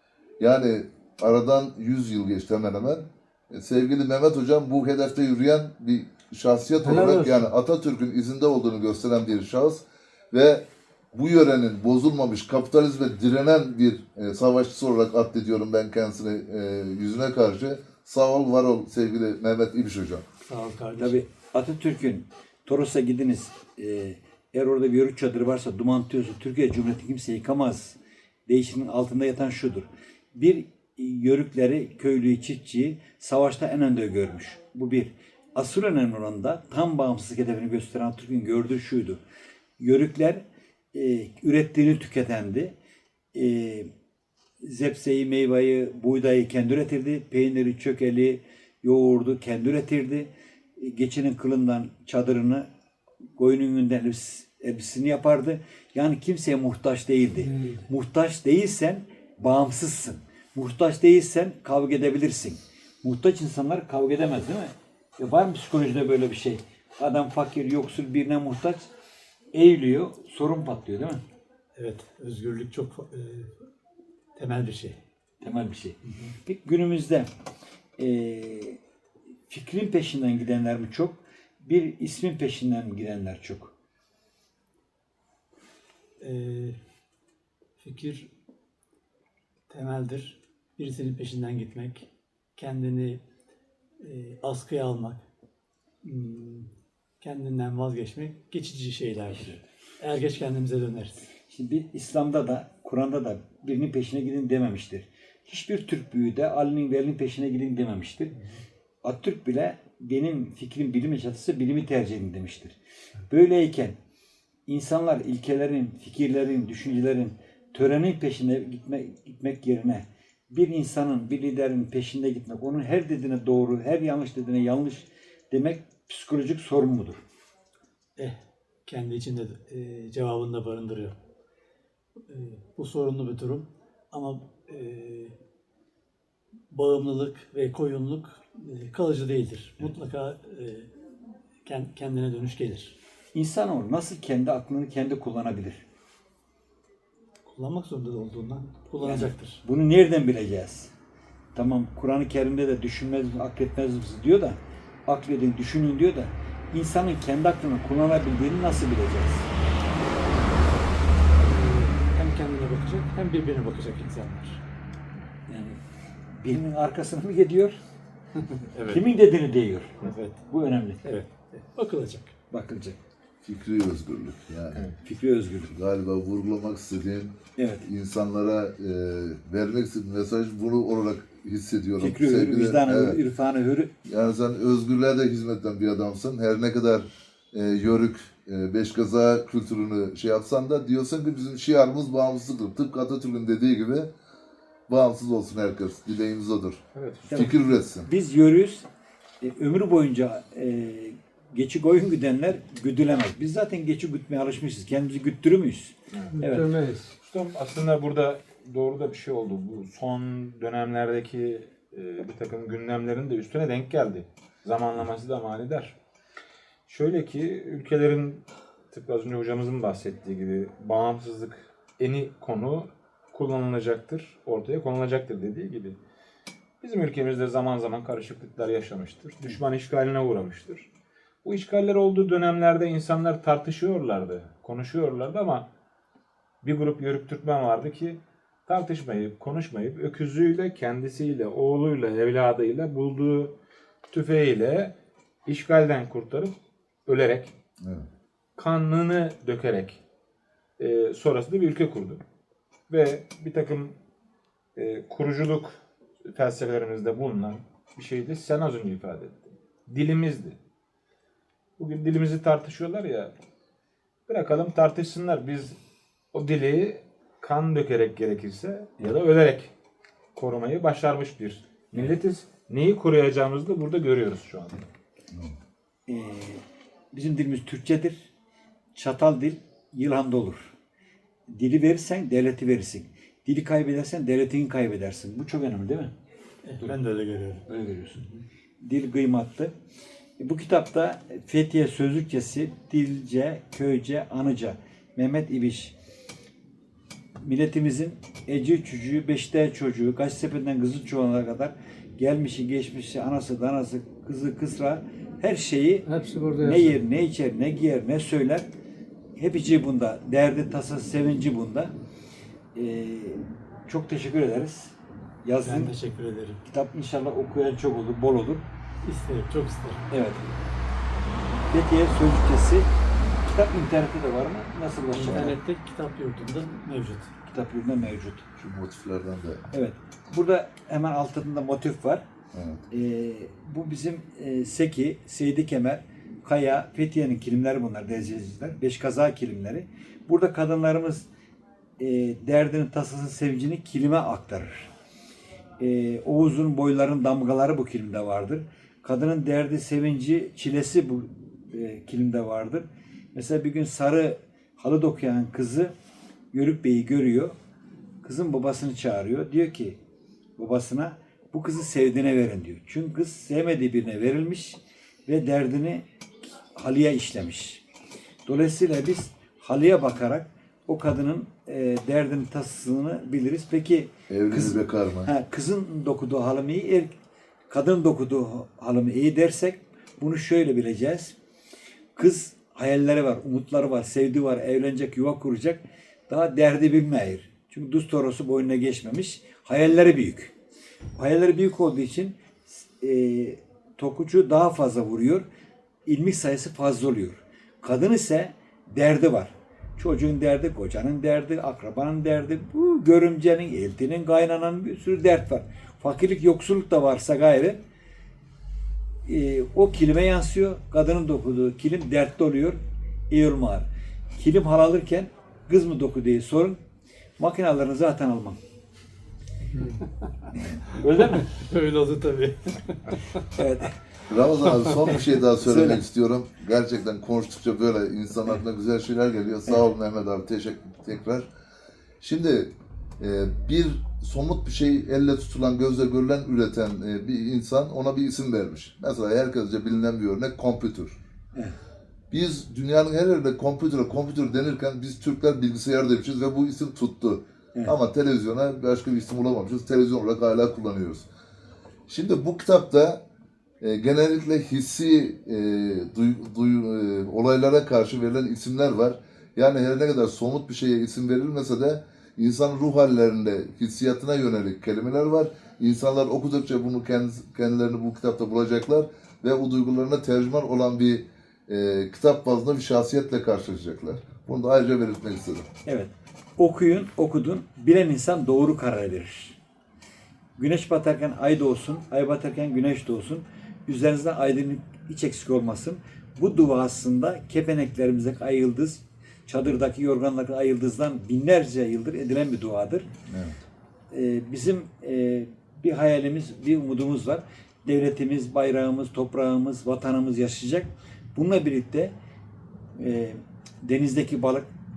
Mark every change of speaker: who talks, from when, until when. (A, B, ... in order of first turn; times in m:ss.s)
0:00.4-0:20.2 A
0:06.8-0:07.5 B
0:20.4-0:21.2 C
0:21.0-0:39.2 D
0:39.8-0:42.8 D
0:43.3-0:43.9 D
0:44.6-0:52.7 D
0:53.4-1:08.9 D
0:57.4-0:57.8 B
1:09.5-1:11.2 D
1:11.8-1:13.5 C
1:14.4-1:15.0 C
1:15.4-1:17.3 D
1:16.1-1:16.3 C
1:18.0-1:18.8 D
1:19.5-1:23.7 D
1:26.2-1:26.8 C
1:27.8-1:28.3 C
1:29.7-1:33.2 C
1:34.0-1:35.2 C
1:36.0-1:36.7 C
1:37.2-1:41.2 C
1:41.5-1:48.4 D
1:49.0-1:52.8 D
1:53.3-1:54.0 D
1:54.7-2:07.2 D
2:08.2-2:11.2 C
2:12.3-2:15.4 C
2:16.7-2:20.9 C
2:21.6-2:23.0 C
2:23.3-2:25.8 D
2:27.5-2:29.6 C
2:29.0-2:30.9 D
2:31.6-2:39.5 D
2:41.4-2:44.6 C
2:45.5-2:45.8 D
2:46.3-2:47.8 D
2:48.4-2:49.0 C
2:48.8-2:51.2 D
2:50.0-2:50.4 C
2:51.0-2:52.4 C
2:52.5-2:53.0 D
2:53.4-2:54.9 A
2:55.0-2:55.7 D
2:55.7-3:03.2 A
2:57.6-2:57.9 D
3:02.0-3:03.9 D
3:04.0-3:14.1 A
3:14.9-3:16.8 A
3:17.0-3:17.4 E
3:17.3-3:18.9 D
3:17.3-3:18.1 A
3:19.4-3:26.7 D
3:26.4-3:27.2 B
3:27.2-3:36.0 E
3:36.9-3:46.0 E
3:46.8-3:50.9 E
3:51.4-3:55.7 E
3:56.6-4:03.5 E
4:04.1-4:04.9 E
4:05.5-4:06.5 E
4:07.1-4:07.5 E
4:07.8-4:08.1 A
4:08.6-4:10.0 E
4:10.8-4:12.2 E
4:12.9-4:14.0 E
4:14.8-4:20.6 E
4:21.8-4:23.3 E
4:24.3-4:25.8 E
4:26.3-4:29.7 E
4:30.4-4:34.9 E
4:36.1-4:38.3 D
4:39.0-4:40.7 D
4:41.5-4:46.1 D
4:46.6-4:47.7 C
4:47.7-4:48.3 D
4:48.8-4:49.7 D
4:50.4-4:55.9 D
4:57.4-5:06.1 D
5:06.1-5:07.0 B
5:06.6-5:08.7 D
5:09.4-5:11.9 D
5:12.8-5:15.9 D
5:15.6-5:16.6 C
5:16.6-5:18.6 D
5:19.0-5:20.1 C
5:20.1-5:20.5 D
5:21.7-5:22.9 D
5:23.4-5:25.6 D
5:25.1-5:27.3 C
5:27.5-5:28.5 D
5:28.6-5:29.6 A
5:29.7-5:32.2 D
5:32.5-5:32.8 A
5:32.9-5:41.3 D
5:42.0-5:44.9 D
5:45.8-5:55.9 D
5:56.5-5:57.6 D
5:58.2-6:00.0 D
6:00.6-6:06.0 D
6:06.7-6:07.8 D
6:08.5-6:17.2 D
6:14.3-6:15.3 A
6:17.7-6:21.4 D
6:22.2-6:30.5 D
6:31.2-6:35.5 D
6:36.1-6:47.8 D
6:49.3-6:56.8 D
6:57.4-6:58.6 D
6:59.7-7:00.0 B
7:00.9-7:01.5 D
7:01.0-7:03.4 C
7:03.6-7:04.0 D
7:04.3-7:11.5 A
7:05.6-7:06.0 D
7:12.2-7:21.2 A
7:22.3-7:31.3 A
7:32.1-7:33.2 A
7:33.8-7:55.7 A
7:55.9-7:59.6 D
8:00.6-8:13.1 D
8:13.3-8:13.6 A
8:14.1-8:22.1 D
8:23.0-8:24.7 D